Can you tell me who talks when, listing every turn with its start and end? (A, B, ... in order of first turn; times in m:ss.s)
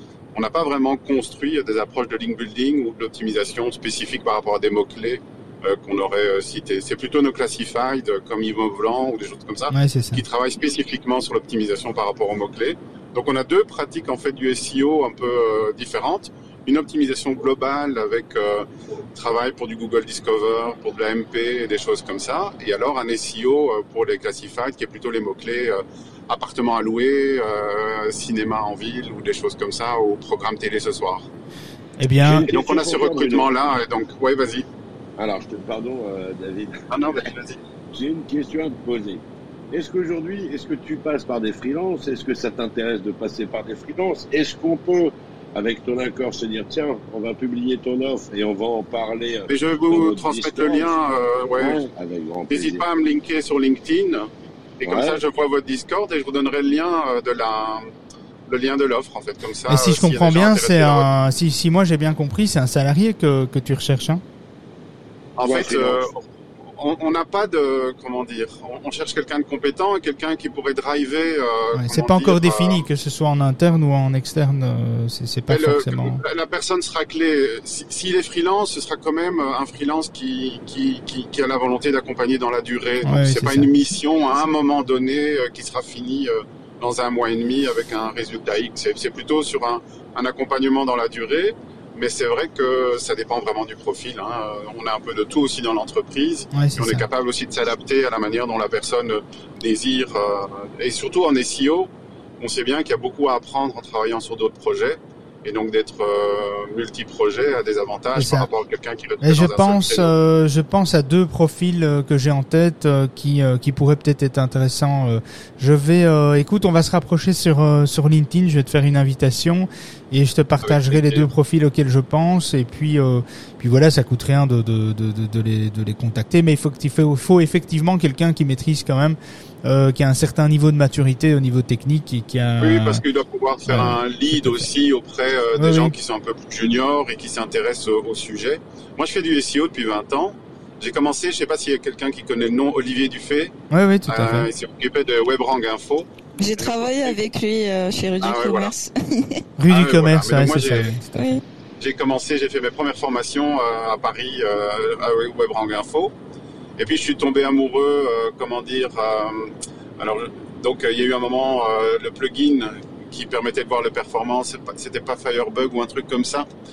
0:00.4-0:31.3 A
0:09.7-0:10.2 B
0:32.0-0:32.5 B
0:32.2-0:33.5 C
0:32.4-0:34.7 A
0:35.2-0:37.3 C
0:36.9-0:37.6 A
0:37.9-0:50.9 C
0:49.5-0:51.8 A
0:51.6-0:52.8 C
0:52.5-0:54.3 A
0:54.8-0:57.9 A
0:54.8-0:55.2 C
0:58.5-1:01.1 A
0:59.7-1:04.2 B
1:05.4-1:12.8 A
1:05.4-1:06.0 C
1:11.7-1:16.2 B
1:15.5-1:50.1 A
1:23.0-1:23.7 B
1:36.5-1:37.1 B
1:48.2-1:48.5 B
1:49.2-2:13.0 B
2:00.6-2:01.3 A
2:12.6-2:23.5 A
2:13.7-2:14.7 B
2:15.6-2:16.0 B
2:23.7-2:24.5 B
2:24.1-2:27.2 A
2:26.4-2:29.4 D
2:28.2-2:28.7 A
2:29.6-2:31.3 B
2:29.7-2:31.0 A
2:31.1-2:31.4 D
2:31.8-2:36.1 A
2:36.8-2:46.5 A